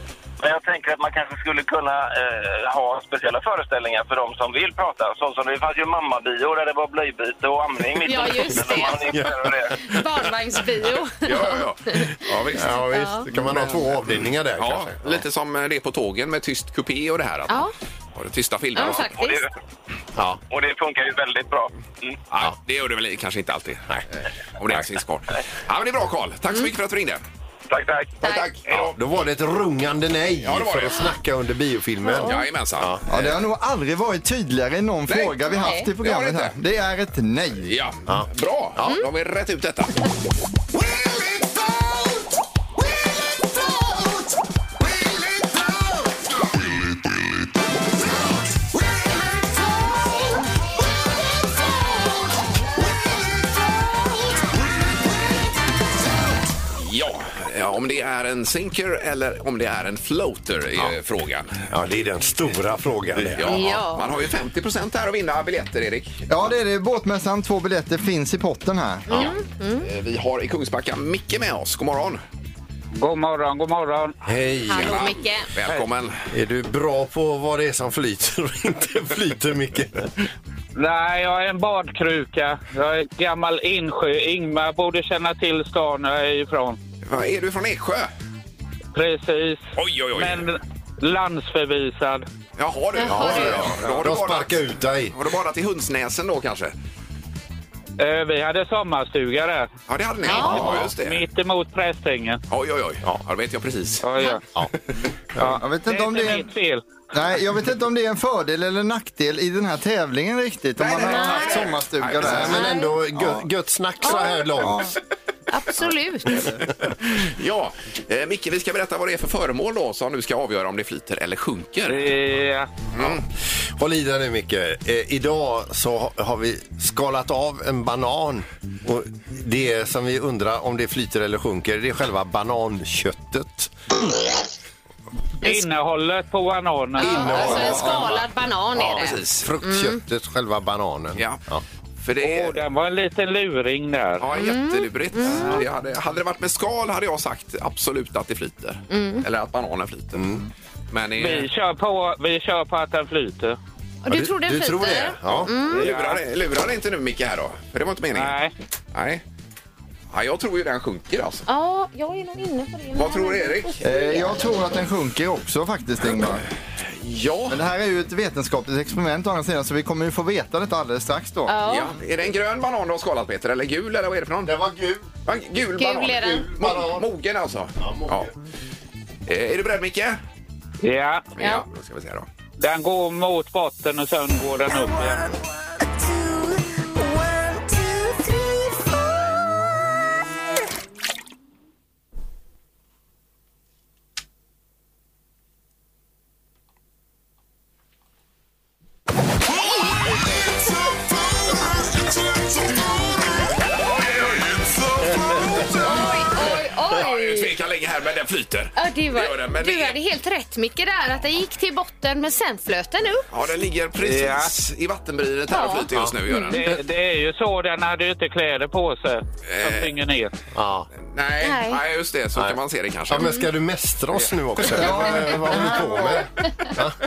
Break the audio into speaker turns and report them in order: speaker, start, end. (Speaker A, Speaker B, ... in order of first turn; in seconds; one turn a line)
Speaker A: 0.4-9.8
Speaker B: 8.1-9.1
Speaker C: 8.5-10.1
Speaker B: 9.8-12.1
Speaker D: 11.2-19.1
Speaker C: 12.5-15.2
Speaker B: 12.8-13.3
Speaker B: 18.7-19.4
Speaker A: 19.2-19.5
Speaker C: 20.2-20.4
Speaker A: 20.5-22.1
Speaker D: 22.3-24.0
Speaker D: 24.6-27.2
Speaker A: 27.7-28.2
Speaker D: 28.2-29.0
Speaker B: 28.2-28.5
Speaker C: 28.7-33.0
Speaker D: 30.4-31.1
Speaker B: 32.0-32.5
Speaker D: 32.2-33.4
Speaker E: 33.1-37.7
Speaker D: 35.1-35.4
Speaker B: 35.5-35.9
Speaker D: 36.0-36.6
Speaker D: 37.6-39.9
Speaker C: 38.1-39.0
Speaker D: 56.8-61.6
Speaker C: 61.7-63.6
Speaker D: 63.2-66.2
Speaker B: 63.4-64.1
Speaker E: 66.3-69.3
Speaker B: 69.1-69.9
Speaker D: 69.1-72.2
Speaker F: 73.0-74.2
Speaker C: 74.2-75.1
Speaker B: 74.7-75.5
Speaker D: 74.8-76.3
Speaker C: 76.3-80.1
Speaker F: 80.8-86.8
Speaker D: 87.0-88.1
Speaker F: 89.0-92.3
Speaker D: 89.8-90.5
Speaker D: 92.6-96.7
Speaker B: 93.0-93.7
Speaker C: 93.0-95.2
Speaker F: 98.0-99.7
Speaker D: 99.9-101.2
Speaker B: 100.2-100.9
Speaker F: 100.3-102.4
Speaker D: 102.5-104.0
Speaker F: 104.0-104.4
Speaker C: 105.3-105.6
Speaker E: 105.4-106.5
Speaker F: 105.4-106.8
Speaker E: 107.1-113.5
Speaker D: 110.8-112.6
Speaker B: 111.0-111.7
Speaker C: 112.2-114.9
Speaker B: 112.4-113.0
Speaker B: 114.0-114.9
Speaker B: 115.5-116.5
Speaker D: 117.1-122.1
Speaker F: 121.9-122.7
Speaker D: 122.9-123.2
Speaker C: 123.8-133.7
Speaker F: 135.4-137.5
Speaker B: 137.0-140.0
Speaker C: 137.0-141.6
Speaker E: 137.3-138.2
Speaker D: 138.8-139.5
Speaker D: 142.0-142.6
Speaker F: 142.2-144.3
Speaker D: 144.2-150.2
Speaker B: 144.3-145.6
Speaker B: 148.9-149.2
Speaker C: 150.2-150.5
Speaker D: 150.9-151.5
Speaker F: 151.2-153.6
Speaker B: 154.0-155.9
Speaker C: 154.1-155.6
Speaker D: 155.3-158.4
Speaker F: 155.7-156.2
Speaker F: 158.2-158.5
Speaker D: 158.9-159.2
Speaker D: 160.1-161.5
Speaker B: 161.5-164.4
Speaker D: 162.9-163.8
Speaker E: 163.8-166.4
Speaker D: 167.0-167.6
Speaker E: 167.5-171.6
Speaker B: 171.5-171.9
Speaker D: 171.7-174.6
Speaker C: 174.4-175.1
Speaker D: 175.3-178.3
Speaker B: 175.8-176.5
Speaker C: 176.1-177.1
Speaker C: 177.8-178.3
Speaker D: 179.3-180.2
Speaker F: 180.8-181.3
Speaker D: 181.4-182.3
Speaker F: 182.6-185.3
Speaker D: 203.9-204.7
Speaker D: 205.3-210.0
Speaker C: 205.3-205.6
Speaker B: 205.7-207.5
Speaker B: 208.8-213.3
Speaker D: 213.3-216.7
Speaker F: 214.0-214.5
Speaker B: 215.5-216.6
Speaker F: 216.5-220.3
Speaker D: 219.5-219.9
Speaker C: 220.5-220.9
Speaker D: 221.0-223.4
Speaker B: 221.4-221.8
Speaker C: 223.1-227.0
Speaker B: 223.1-223.5
Speaker E: 224.7-226.3
Speaker B: 226.4-226.7